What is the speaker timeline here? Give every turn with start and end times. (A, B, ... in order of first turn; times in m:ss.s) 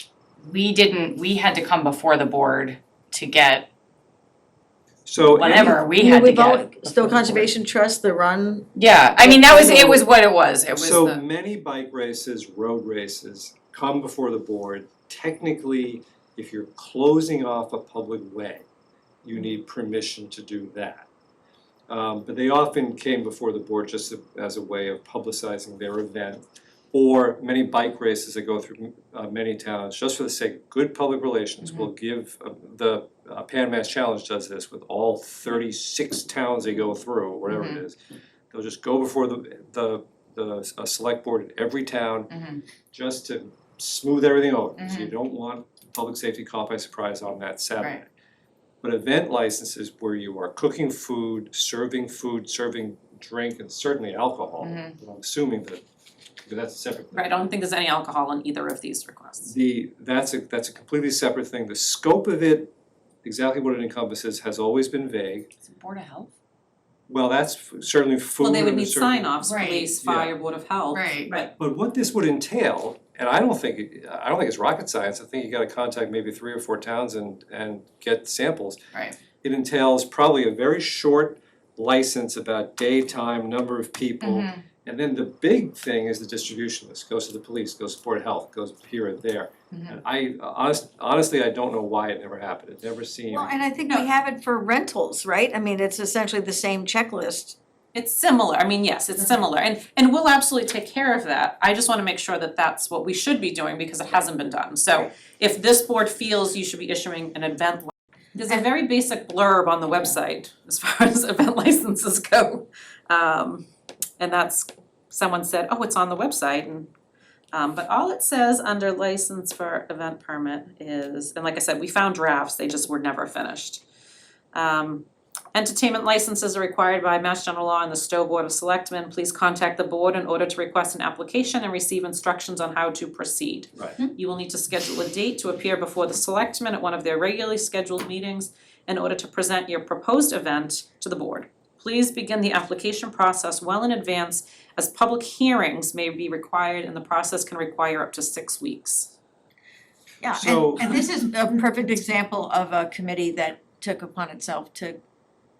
0:00.4-0:03.7 A
0:05.0-0:05.8 B
0:05.3-0:07.5 A
0:05.7-0:10.0 C
0:08.8-0:11.2 A
0:10.7-0:18.6 B
0:19.2-0:21.1 B
0:21.9-0:38.0 B
0:37.5-0:37.8 A
0:38.5-0:42.3 B
0:42.3-0:42.6 A
0:42.9-0:48.1 B
0:44.8-0:45.1 A
0:48.8-0:55.8 B
0:54.6-0:54.9 A
0:56.4-0:57.4 B
0:57.1-0:59.5 D
0:59.4-1:02.7 B
1:03.2-1:05.5 B
1:05.6-1:06.3 A
1:07.1-1:09.4 B
1:08.4-1:11.5 D
1:09.4-1:09.9 A
1:10.0-1:10.4 B
1:10.9-1:11.3 A
1:11.5-1:18.8 B
1:19.3-1:33.5 B
1:24.2-1:24.6 A
1:29.7-1:30.0 A
1:33.3-1:37.6 C
1:37.9-1:53.7 D
1:54.2-1:56.9 D
1:57.5-2:03.8 D
2:04.5-2:29.1 D
2:30.2-2:35.0 C
2:30.4-2:31.0 B